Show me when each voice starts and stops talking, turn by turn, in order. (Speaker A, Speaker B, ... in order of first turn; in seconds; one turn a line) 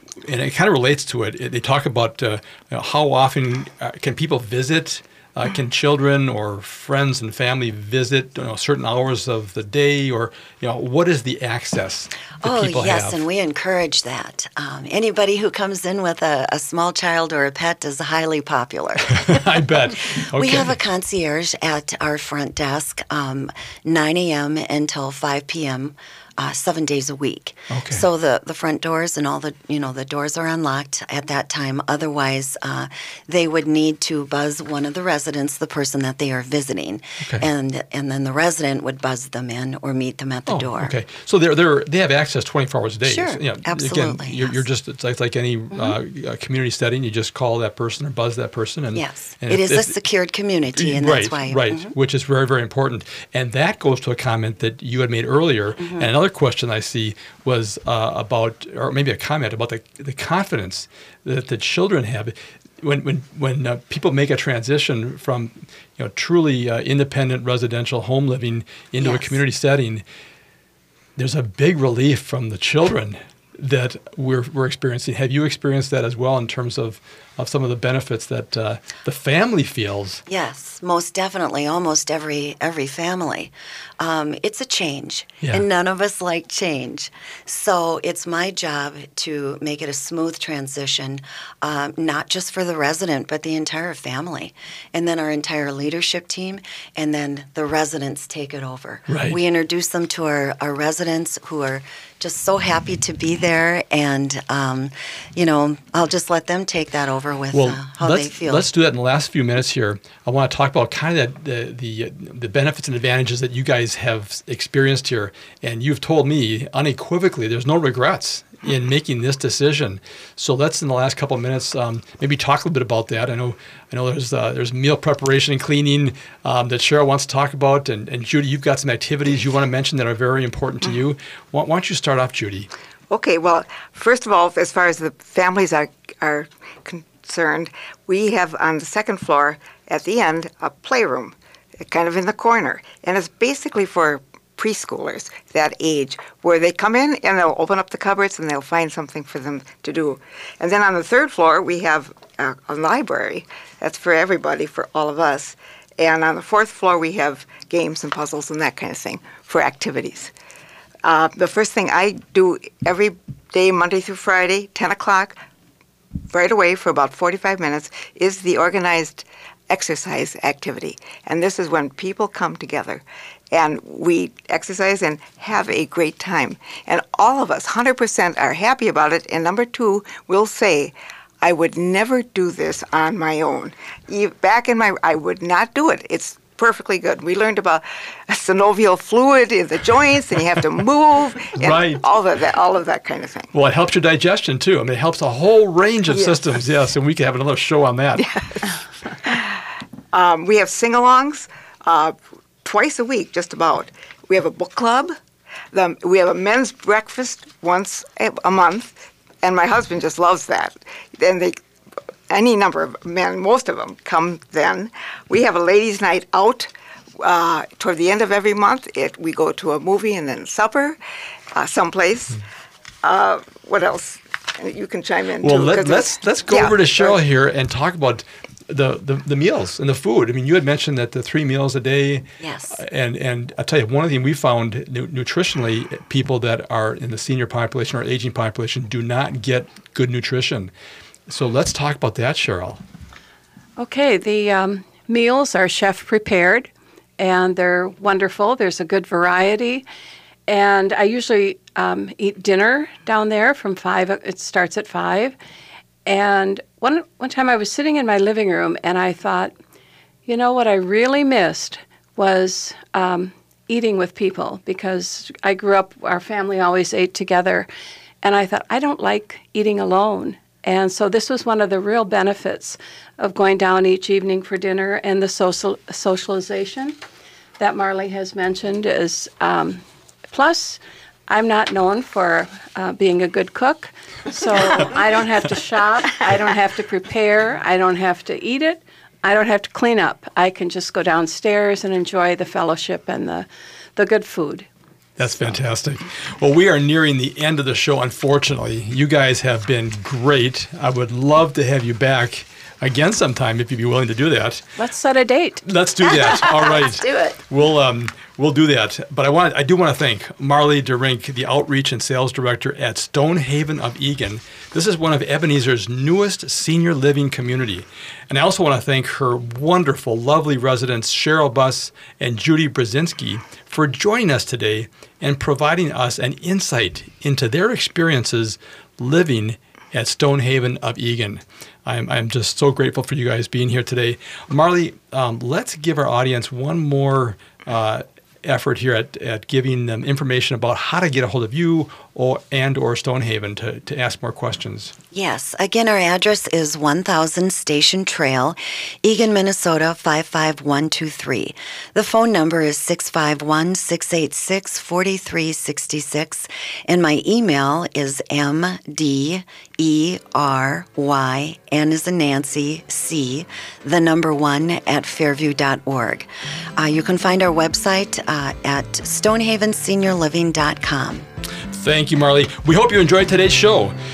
Speaker A: 0.2-13.2
Speaker B: 12.4-19.4
Speaker A: 19.2-20.8
Speaker B: 20.3-40.9
Speaker A: 27.7-28.0
Speaker A: 37.2-37.5
Speaker A: 40.5-50.0
Speaker B: 43.0-44.6
Speaker B: 48.9-51.9
Speaker A: 50.7-70.0
Speaker B: 55.8-56.1
Speaker B: 69.0-69.3
Speaker A: 71.2-80.2
Speaker B: 80.3-108.7
Speaker A: 99.1-99.4
Speaker A: 107.5-132.7
Speaker C: 133.1-160.3
Speaker C: 161.0-165.4
Speaker C: 166.3-193.5
Speaker A: 191.6-192.0
Speaker A: 193.5-198.2
Speaker C: 196.1-196.4
Speaker C: 198.2-198.7
Speaker C: 199.3-199.6
Speaker C: 200.1-205.1
Speaker C: 205.7-211.6
Speaker C: 212.3-216.7
Speaker C: 217.2-221.0
Speaker C: 221.5-222.4
Speaker C: 223.0-227.2
Speaker A: 225.4-240.7
Speaker B: 232.4-232.8
Speaker A: 241.3-242.8
Speaker D: 243.8-249.8
Speaker D: 250.5-255.3
Speaker D: 256.1-259.5
Speaker D: 260.2-267.7
Speaker D: 268.2-276.9
Speaker D: 277.6-294.7
Speaker A: 295.2-304.6
Speaker D: 304.8-305.6
Speaker A: 305.6-344.9
Speaker B: 306.1-307.4
Speaker B: 345.1-371.3
Speaker A: 371.7-373.9